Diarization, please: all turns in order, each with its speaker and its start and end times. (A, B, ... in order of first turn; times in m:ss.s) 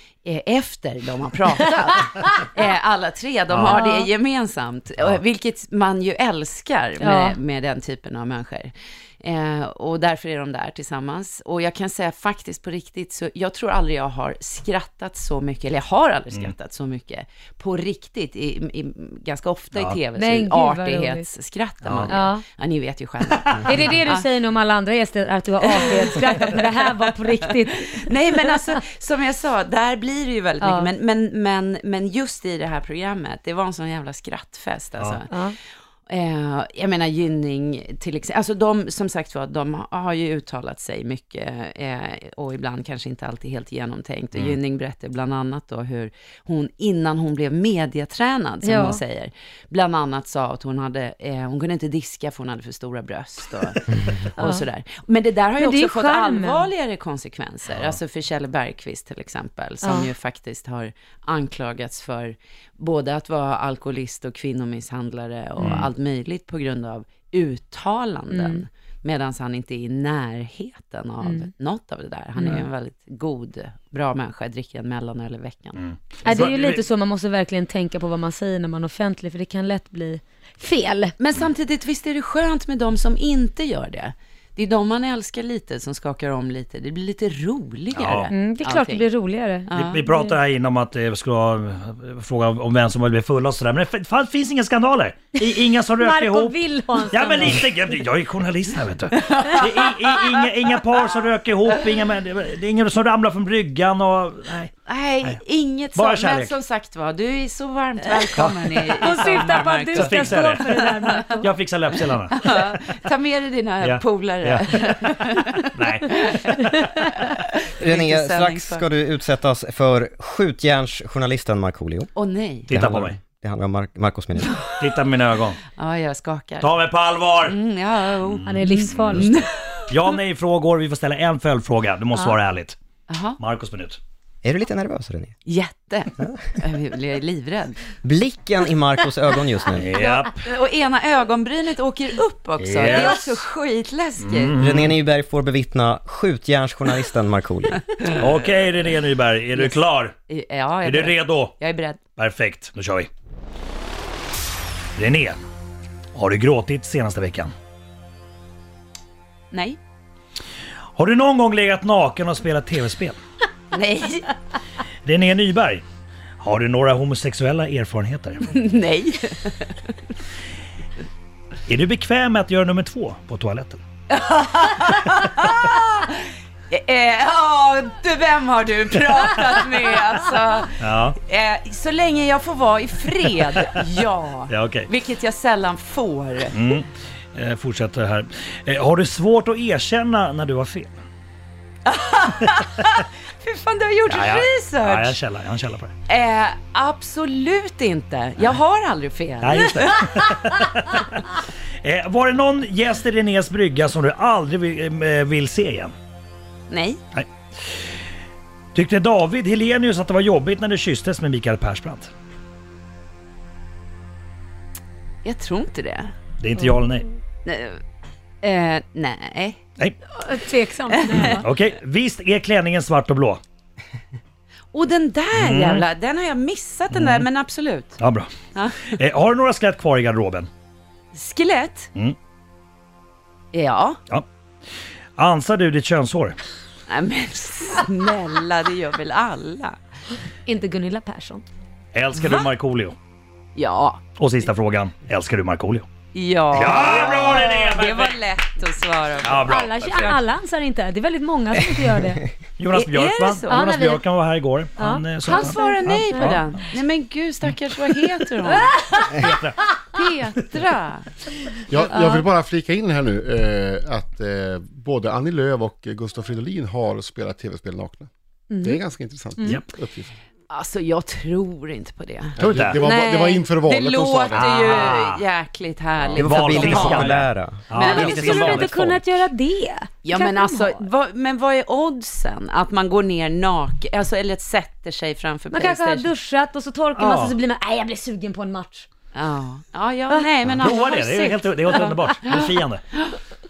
0:00.2-0:24.3 A
0:03.5-0:03.8 B
0:03.7-0:04.1 C
0:07.0-0:07.3 C
0:20.1-0:21.3 C
0:21.8-0:22.2 B
0:22.1-0:22.4 C
0:23.4-0:23.8 B
0:23.6-0:28.1 C
0:25.6-0:26.6 A
0:27.2-0:27.5 A
0:28.0-0:35.3 A
0:30.6-0:30.9 C
0:35.3-0:35.6 C
0:36.1-1:16.5 A
0:48.6-0:49.0 C
0:54.4-0:54.6 C
0:55.6-0:56.7 C
0:59.8-1:00.1 C
1:05.6-1:05.9 B
1:08.3-1:08.6 C
1:11.2-1:11.5 C
1:12.4-1:12.6 B
1:15.8-1:16.8 B
1:16.2-1:21.1 C
1:21.2-1:29.0 A
1:27.9-1:28.3 B
1:28.3-1:30.4 C
1:29.7-1:30.0 A
1:29.7-1:36.6 B
1:36.0-1:37.7 C
1:37.1-1:44.7 B
1:39.1-1:40.4 A
1:44.8-1:51.4 A
1:45.9-1:46.6 B
1:48.2-1:49.2 B
1:49.0-1:51.5 C
1:49.9-1:52.8 B
1:52.3-1:56.6 A
1:53.8-1:56.9 B
1:57.3-1:58.8 A
1:57.8-2:02.1 D
2:02.1-2:02.7 A
2:02.7-2:03.2 B
2:02.7-2:04.6 D
2:04.4-2:04.7 A
2:04.8-2:05.6 B
2:05.8-2:06.7 A
2:06.6-2:07.6 B
2:07.4-2:09.8 A
2:08.2-2:09.4 B
2:08.4-2:09.3 C
2:09.9-2:12.8 B
2:13.1-2:13.4 A
2:13.4-2:14.0 B
2:14.4-2:15.3 D
2:15.4-2:17.8 A
2:18.0-2:19.9 D
2:19.7-2:20.4 B
2:19.9-2:24.6 A
2:22.6-2:23.4 B
2:24.2-2:25.0 B
2:24.6-2:27.8 D
2:28.1-2:30.2 B
2:29.5-2:32.0 A
2:30.8-2:31.5 B
2:32.2-2:33.1 B
2:35.0-2:35.4 B
2:36.1-2:37.5 B
2:39.5-2:39.8 A
2:40.9-2:43.2 B
2:43.7-2:44.3 A
2:45.0-2:45.8 B
2:46.4-2:48.5 B
2:48.5-2:49.9 A
2:51.7-2:53.8 B
2:54.1-3:06.6 A
3:00.8-3:01.2 B
3:04.5-3:04.9 B
3:06.5-3:11.0 B
3:11.8-3:15.2 A
3:14.0-3:15.9 B
3:16.1-3:20.2 A
3:19.4-3:25.9 B
3:26.7-3:27.0 A
3:28.7-3:32.1 B
3:35.2-3:36.1 A
3:36.4-3:37.1 B
3:37.4-3:37.8 A
3:38.4-3:39.6 A
3:40.1-3:41.4 C
3:40.9-3:41.4 A
3:41.1-3:43.4 B
3:44.7-3:48.0 A
3:45.3-3:45.8 B
3:46.9-3:47.3 B
3:48.0-3:48.3 B
3:48.5-3:49.0 A
3:48.9-3:50.5 B
3:51.1-3:51.9 A
3:53.5-3:54.0 A
3:55.2-3:56.4 B
3:56.9-3:59.8 A
4:00.4-4:01.4 C
4:01.9-4:03.0 B
4:02.1-4:02.5 A
4:03.5-4:04.0 A
4:04.2-4:05.9 B
4:06.1-4:10.2 A
4:06.5-4:08.2 B
4:09.2-4:10.2 B
4:09.4-4:12.3 C
4:12.6-4:16.5 B
4:12.7-4:13.7 A
4:13.5-4:14.0 C
4:14.8-4:16.4 C
4:15.2-4:18.7 A
4:18.5-4:19.3 C
4:19.1-4:19.6 B
4:19.9-4:21.1 A
4:21.7-4:28.1 E
4:21.9-4:22.2 C
4:28.5-4:28.8 C
4:28.6-4:30.1 E
4:29.4-4:29.7 B
4:30.5-4:37.2 A
4:32.4-4:32.8 B
4:32.4-4:34.7 E
4:34.3-4:35.2 B
4:36.1-4:38.8 D
4:36.2-4:39.0 B
4:37.8-4:40.8 C
4:37.8-4:38.2 A
4:40.0-4:46.1 A
4:45.5-4:48.9 C
4:47.0-4:47.4 B
4:49.1-4:53.2 A
4:50.4-4:52.8 B